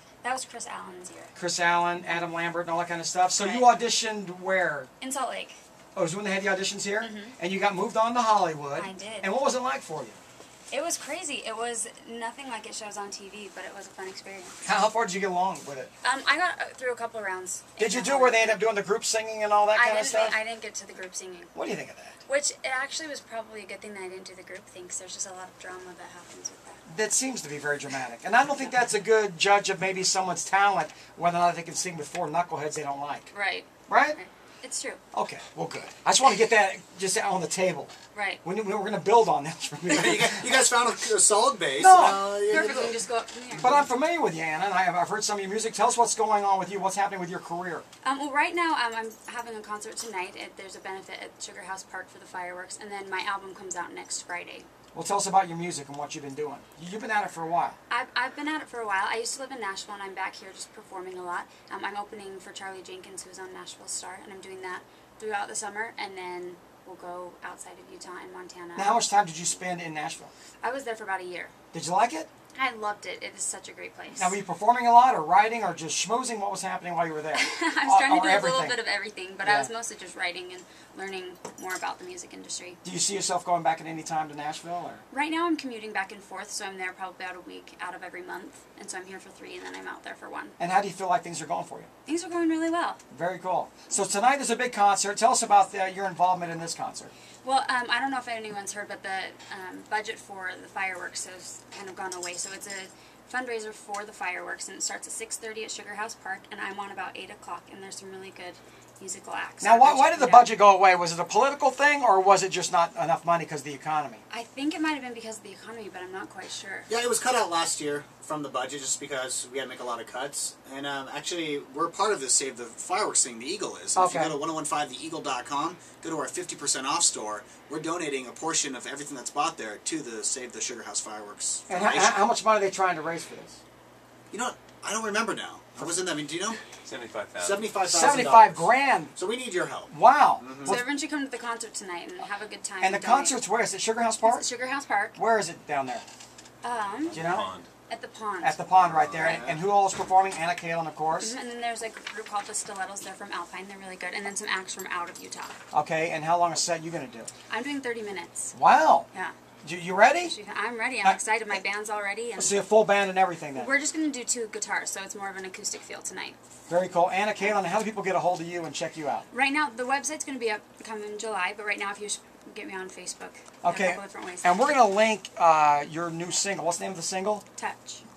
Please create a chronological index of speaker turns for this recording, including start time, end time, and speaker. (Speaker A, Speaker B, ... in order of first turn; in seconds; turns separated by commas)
Speaker A: 0.2-1.3, Speaker B: 1.4-4.9, Speaker A: 3.4-3.8, Speaker A: 5.0-5.6, Speaker B: 6.0-10.2, Speaker A: 7.0-7.3, Speaker A: 8.8-9.3, Speaker A: 10.7-14.7, Speaker B: 14.7-15.9, Speaker A: 16.0-18.6, Speaker B: 17.8-20.4, Speaker A: 19.7-21.5, Speaker B: 21.5-22.2, Speaker A: 22.3-26.8, Speaker B: 26.9-33.3, Speaker A: 33.3-35.0, Speaker B: 33.9-34.2, Speaker B: 35.1-37.9, Speaker A: 38.1-38.4, Speaker B: 38.4-40.6, Speaker C: 39.9-43.0, Speaker B: 41.8-42.5, Speaker A: 42.5-43.9, Speaker B: 43.6-47.9, Speaker A: 48.0-54.7, Speaker B: 54.9-57.8, Speaker A: 57.9-69.0, Speaker B: 68.8-70.3, Speaker A: 70.6-71.5, Speaker B: 71.7-72.3, Speaker A: 72.5-74.4, Speaker B: 74.2-78.8, Speaker A: 77.3-82.8, Speaker B: 79.4-79.7, Speaker B: 82.8-85.0, Speaker A: 85.1-90.6, Speaker B: 90.6-91.9, Speaker A: 92.1-93.0, Speaker B: 93.1-97.1, Speaker A: 97.4-110.5, Speaker B: 109.6-114.2, Speaker A: 114.3-116.9, Speaker C: 116.9-132.2, Speaker B: 124.0-124.4, Speaker B: 131.7-133.6, Speaker C: 134.3-136.6, Speaker D: 136.8-137.7, Speaker C: 137.4-140.8, Speaker B: 137.8-139.2, Speaker B: 139.9-140.9, Speaker A: 140.7-143.4, Speaker B: 142.8-144.5, Speaker A: 144.2-145.2, Speaker B: 145.2-146.1, Speaker A: 146.6-147.3, Speaker D: 147.1-147.7, Speaker B: 147.1-147.5, Speaker A: 147.9-148.6, Speaker B: 148.4-151.3, Speaker D: 148.8-149.4, Speaker C: 149.2-149.6, Speaker A: 149.2-149.5, Speaker A: 151.1-155.6, Speaker B: 155.7-157.3, Speaker A: 157.5-158.5, Speaker B: 158.5-159.1, Speaker B: 159.6-160.3, Speaker A: 160.2-162.6, Speaker B: 162.4-163.7, Speaker A: 163.5-166.4, Speaker B: 166.7-169.3, Speaker A: 169.3-174.8, Speaker B: 173.6-177.4, Speaker A: 177.6-178.0